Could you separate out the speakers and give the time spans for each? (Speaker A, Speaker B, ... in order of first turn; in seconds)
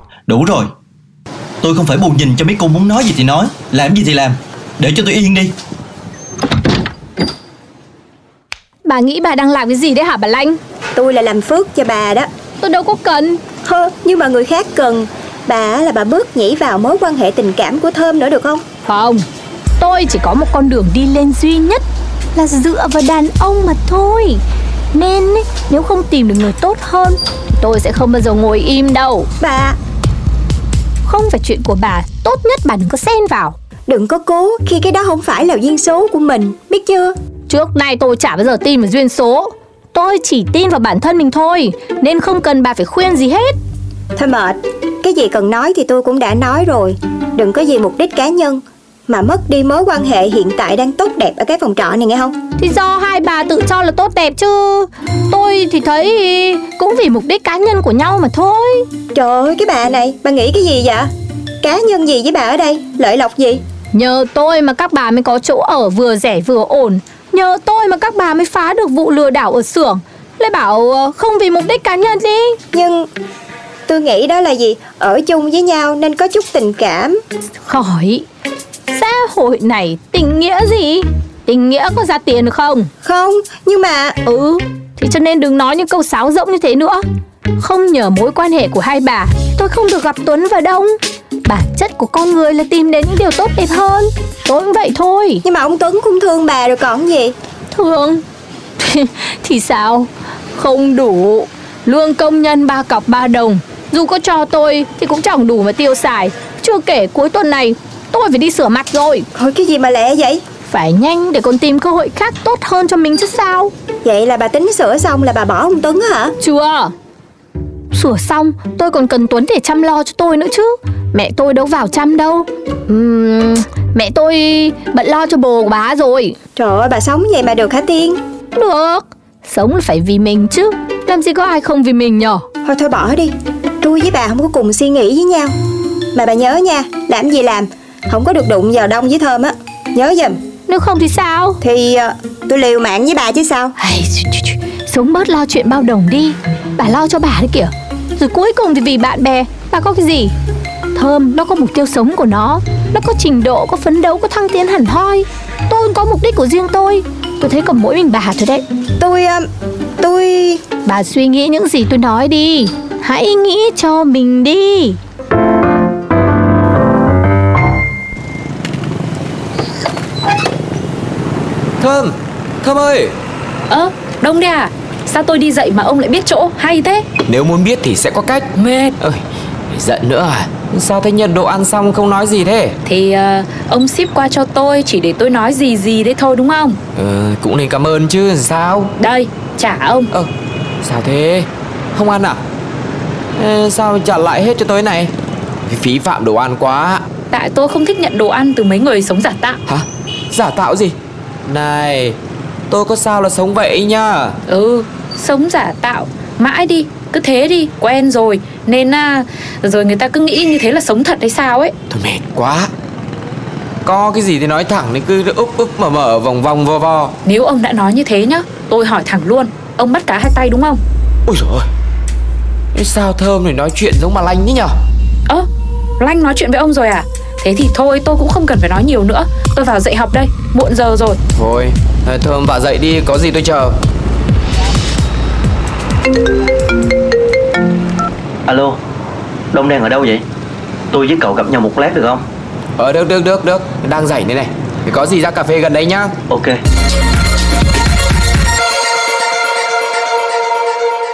Speaker A: 0.3-0.7, 1.6-5.5, 238.5-238.8, 239.5-240.2, 240.9-242.2, 246.3-246.6
Speaker B: 8.8-10.6, 12.6-13.4, 18.9-19.2, 19.8-24.4, 24.9-29.3, 31.1-33.5, 37.5-43.5, 52.6-58.9, 63.9-72.6, 77.7-78.2, 78.9-82.9, 84.2-87.0, 87.6-95.4, 97.7-98.2, 98.8-109.3, 110.7-113.7, 116.4-116.9, 117.9-126.4, 128.5-132.4, 140.7-141.6, 143.8-150.3, 150.9-158.6, 160.8-165.0
Speaker C: 10.9-12.3, 13.6-18.6, 29.4-29.8, 33.9-37.1, 44.1-52.4, 59.1-61.1, 61.6-63.6, 72.7-73.1, 73.9-77.2, 83.0-84.2, 95.4-97.3, 109.3-110.4, 114.0-116.3, 126.5-128.2, 132.6-135.5, 136.1-140.4, 141.6-143.7, 159.0-159.5, 160.0-160.6
Speaker D: 171.8-173.2, 177.3-182.8, 186.9-188.9, 190.8-192.4, 193.4-195.1, 195.7-197.0, 199.7-202.2, 202.7-204.4, 211.9-212.7, 213.8-217.1, 221.3-221.7, 222.7-224.7, 231.3-233.8, 242.8-246.1
Speaker E: 173.7-177.1, 178.5-179.0, 182.8-186.8, 189.0-190.1, 197.3-199.6, 204.5-211.7, 217.2-220.8, 226.0-231.2